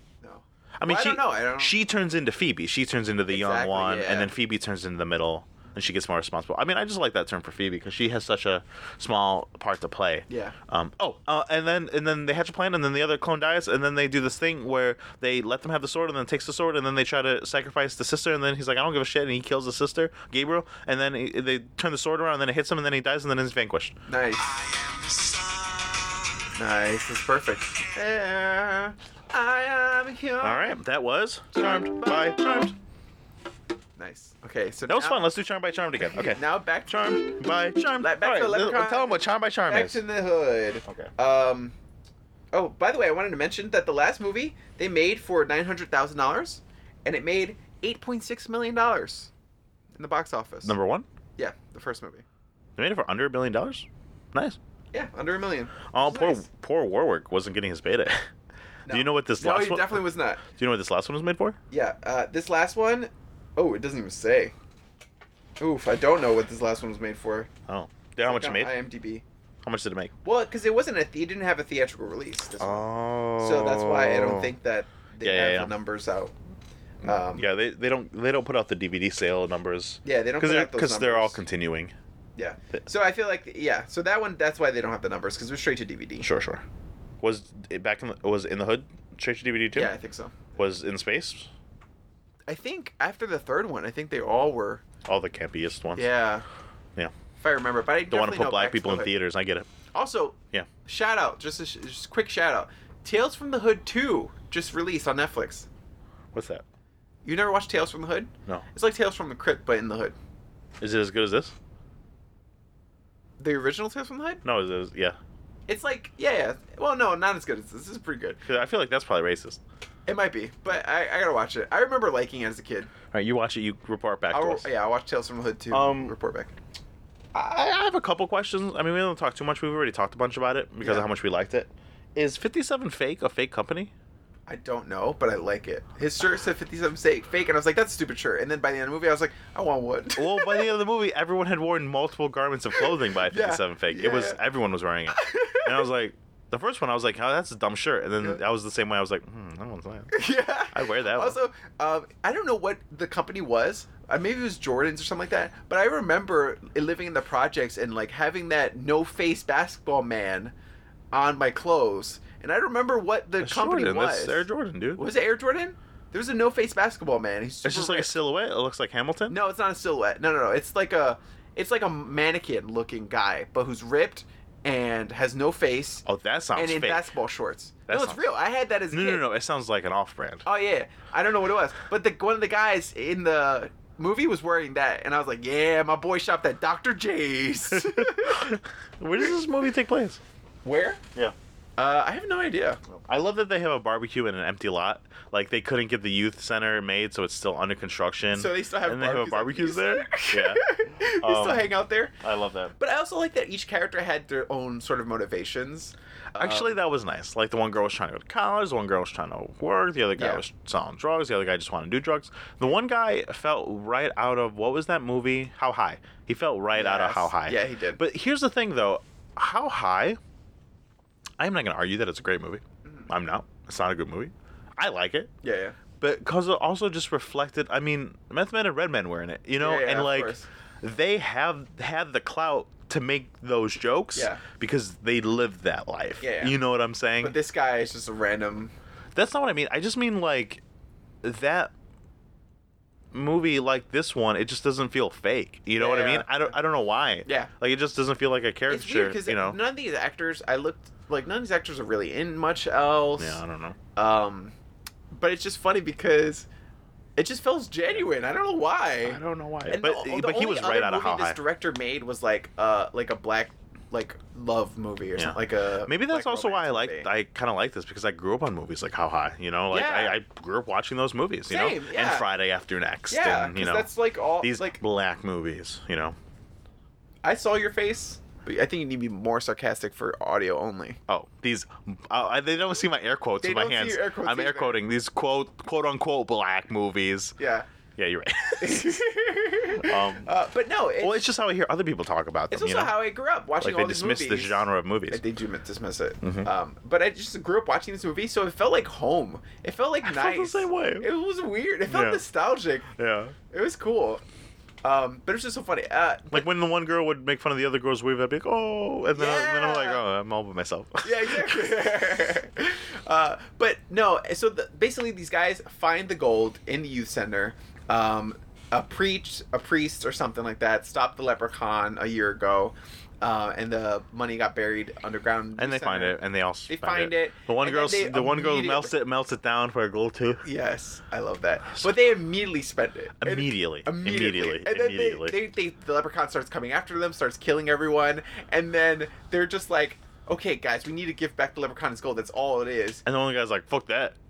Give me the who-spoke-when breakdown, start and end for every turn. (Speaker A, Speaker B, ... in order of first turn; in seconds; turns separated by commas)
Speaker A: 0.2-1.8, Speaker B: 0.8-23.9, Speaker A: 3.3-4.3, Speaker A: 10.3-10.6, Speaker A: 24.1-24.6, Speaker A: 26.6-30.8, Speaker B: 30.4-32.8, Speaker A: 31.6-32.4, Speaker A: 34.0-35.3, Speaker B: 34.9-40.0, Speaker A: 36.0-37.2, Speaker A: 38.0-41.7, Speaker A: 42.5-49.3, Speaker A: 50.0-50.8, Speaker B: 50.6-51.1, Speaker A: 51.4-52.2, Speaker B: 52.8-54.6, Speaker A: 54.9-56.5, Speaker B: 55.9-58.3, Speaker A: 58.9-60.4, Speaker B: 58.9-61.6, Speaker A: 61.7-64.5, Speaker A: 65.6-67.5, Speaker B: 67.7-68.8, Speaker A: 68.2-69.2, Speaker B: 69.6-70.1, Speaker A: 70.2-76.3, Speaker B: 72.6-74.5, Speaker B: 75.2-75.7, Speaker A: 77.0-77.5, Speaker B: 77.0-81.9, Speaker A: 80.0-81.4, Speaker A: 82.4-86.3, Speaker B: 86.2-86.6, Speaker B: 87.2-89.9, Speaker A: 89.8-90.7, Speaker B: 90.6-91.5, Speaker A: 92.5-94.8, Speaker B: 95.0-96.1, Speaker A: 96.0-96.5, Speaker A: 97.4-99.2, Speaker B: 98.1-99.7, Speaker A: 99.9-105.7, Speaker B: 106.3-106.6, Speaker A: 107.2-110.2, Speaker B: 110.8-111.5, Speaker A: 113.4-114.4, Speaker B: 114.5-115.2, Speaker A: 115.7-118.4, Speaker B: 118.5-119.6, Speaker A: 120.1-122.9, Speaker B: 123.1-124.7, Speaker A: 124.3-126.5, Speaker B: 125.7-126.1, Speaker B: 127.3-133.9, Speaker A: 130.8-131.1, Speaker A: 134.5-140.7, Speaker B: 140.2-151.4, Speaker A: 142.7-144.4, Speaker A: 145.1-145.8, Speaker A: 150.1-160.5, Speaker A: 161.1-168.2, Speaker B: 163.4-165.0, Speaker B: 167.6-169.4, Speaker A: 169.3-179.2, Speaker B: 176.1-177.1, Speaker B: 177.9-178.4, Speaker B: 178.9-180.4, Speaker A: 180.4-188.6, Speaker B: 187.7-190.2, Speaker A: 190.7-191.0, Speaker A: 191.8-192.8, Speaker B: 193.1-200.7, Speaker A: 198.3-202.2, Speaker B: 201.2-201.7, Speaker B: 202.2-202.7, Speaker A: 202.8-206.8, Speaker B: 206.4-220.2, Speaker A: 210.2-210.4, Speaker A: 216.7-218.0, Speaker B: 221.4-225.3, Speaker A: 225.4-225.8, Speaker B: 226.0-237.4, Speaker A: 229.6-230.5, Speaker A: 234.2-234.4, Speaker A: 236.2-236.6, Speaker A: 237.2-238.7, Speaker B: 239.2-240.6, Speaker B: 241.2-241.7, Speaker B: 243.1-249.6, Speaker A: 245.8-246.5, Speaker A: 247.2-247.5, Speaker A: 248.7-253.4, Speaker B: 253.2-253.8, Speaker A: 253.9-254.5, Speaker A: 255.1-256.5, Speaker A: 257.2-267.1, Speaker B: 259.0-261.4, Speaker B: 265.2-276.2, Speaker A: 269.7-270.2, Speaker A: 271.5-272.3, Speaker A: 273.1-274.8, Speaker A: 277.2-281.0, Speaker B: 281.1-287.4, Speaker A: 283.4-284.8, Speaker A: 287.4-287.7, Speaker B: 288.0-289.0, Speaker A: 288.6-291.2, Speaker B: 289.7-290.3, Speaker B: 291.0-293.0, Speaker A: 292.5-302.9, Speaker B: 293.6-295.2, Speaker B: 296.2-296.5, Speaker B: 300.0-301.1, Speaker B: 301.9-302.2, Speaker B: 302.9-303.4, Speaker A: 303.5-304.2, Speaker A: 304.8-306.5, Speaker B: 306.3-311.7, Speaker A: 309.1-310.0, Speaker A: 311.0-328.9, Speaker B: 325.6-330.4, Speaker A: 330.4-343.0, Speaker B: 333.2-335.4, Speaker B: 343.1-344.1